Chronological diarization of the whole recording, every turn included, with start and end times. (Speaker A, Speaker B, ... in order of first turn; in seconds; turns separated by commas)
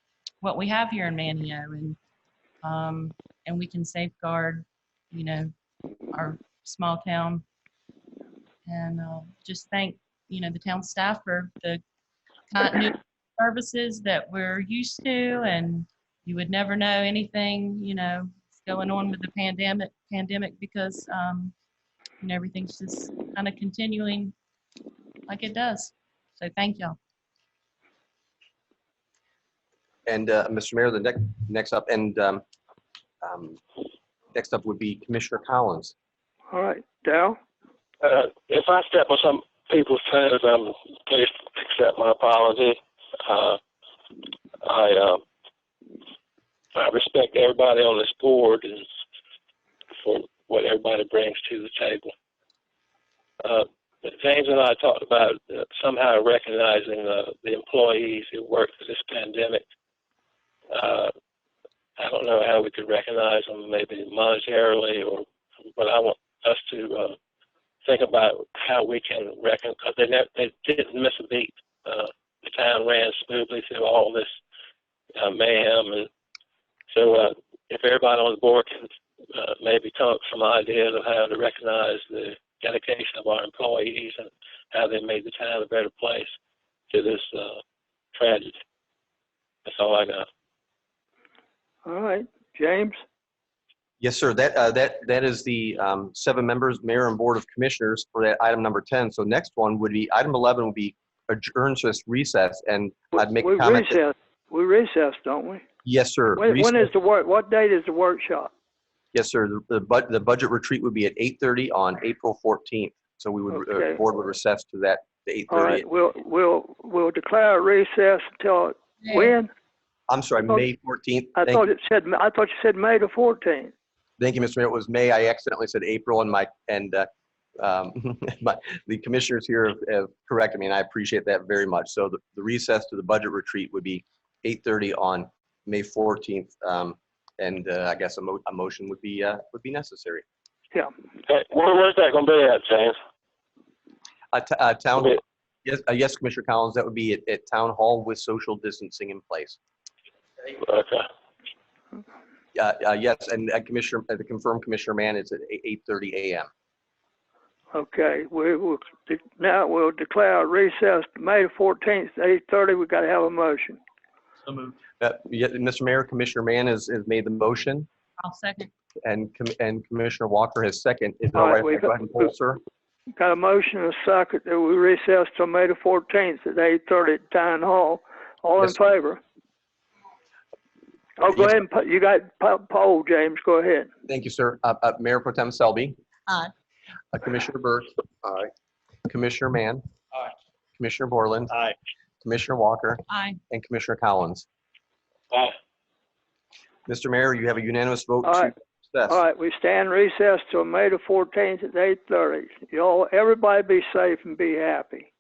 Speaker A: 0.4-2.0, Speaker A: 2.6-5.5, Speaker A: 6.1-7.4, Speaker A: 8.7-11.8, Speaker A: 12.5-21.5, Speaker A: 22.2-24.3, Speaker A: 25.3-27.0, Speaker B: 30.1-32.4, Speaker B: 33.2-33.6, Speaker B: 34.3-35.9, Speaker C: 36.5-37.4, Speaker D: 38.0-43.6, Speaker D: 44.6-45.2, Speaker D: 46.7-48.8, Speaker D: 50.0-52.1, Speaker D: 53.4-59.6, Speaker D: 60.7-61.1, Speaker D: 62.0-67.2, Speaker D: 67.8-74.3, Speaker D: 75.1-76.1, Speaker D: 76.9-86.3, Speaker D: 86.9-87.6, Speaker D: 88.1-88.6, Speaker D: 89.6-90.3, Speaker C: 91.8-93.0, Speaker B: 94.0-104.0, Speaker C: 103.1-105.6, Speaker B: 105.8-106.9, Speaker C: 106.4-108.5, Speaker B: 109.1-115.8, Speaker C: 113.5-114.0, Speaker C: 115.5-119.5, Speaker A: 119.0-119.3, Speaker B: 120.1-121.6, Speaker C: 121.3-123.7, Speaker B: 124.2-127.1, Speaker B: 127.6-140.2, Speaker D: 141.2-143.0, Speaker B: 144.3-149.6, Speaker D: 150.6-151.0, Speaker B: 152.5-156.5, Speaker C: 157.7-163.8, Speaker B: 165.0-167.9, Speaker A: 168.2-168.7, Speaker B: 169.0-172.6, Speaker C: 171.3-172.3, Speaker C: 173.2-179.2, Speaker C: 181.2-183.9, Speaker B: 181.3-181.6, Speaker B: 184.1-185.9, Speaker B: 187.1-187.9, Speaker B: 189.1-189.8, Speaker B: 190.8-191.6, Speaker B: 192.2-194.4, Speaker B: 196.9-199.2, Speaker C: 198.2-198.5, Speaker C: 199.1-205.1